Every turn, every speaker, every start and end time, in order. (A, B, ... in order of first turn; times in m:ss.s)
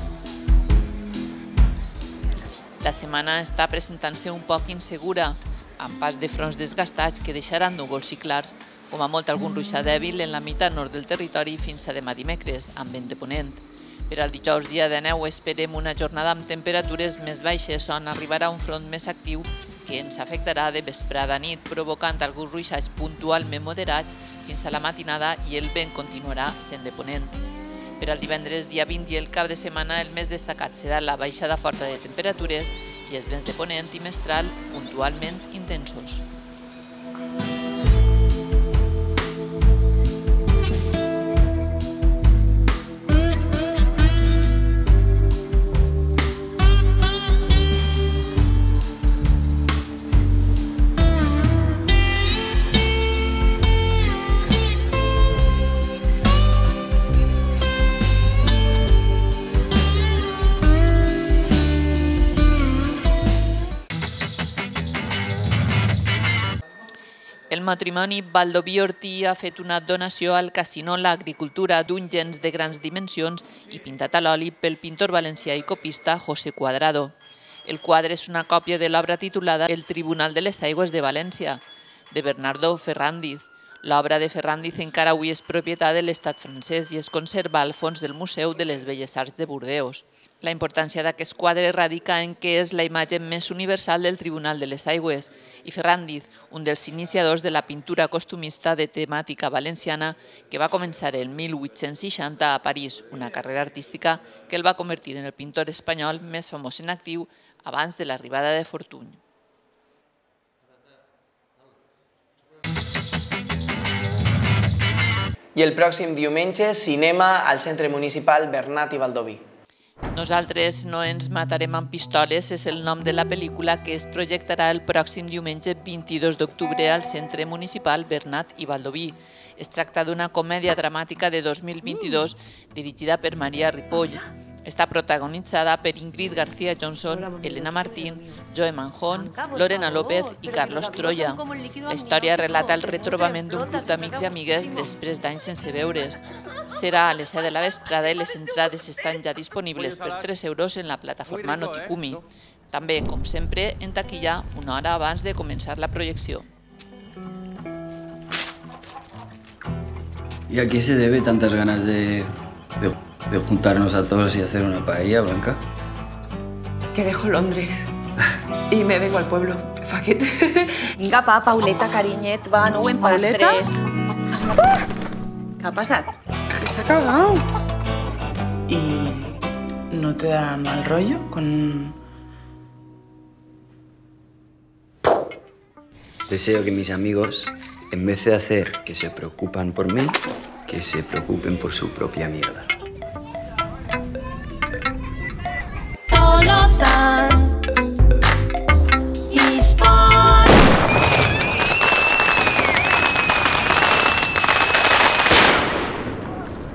0:02.8-0:27.4 A
0:28.0-0:36.2 A
1:07.5-1:17.1 A
1:17.7-1:49.2 A
1:55.6-1:59.4 B
2:00.1-2:36.5 A
2:40.5-2:45.6 C
2:46.9-2:47.9 D
2:48.7-2:50.9 D
2:51.0-2:53.8 E
2:53.0-2:53.6 D
2:55.6-2:56.1 E
2:58.7-2:59.4 D
2:59.9-3:02.0 D
3:06.3-3:10.2 C
3:10.7-3:12.7 C
3:16.1-3:17.4 E
3:19.3-3:20.5 E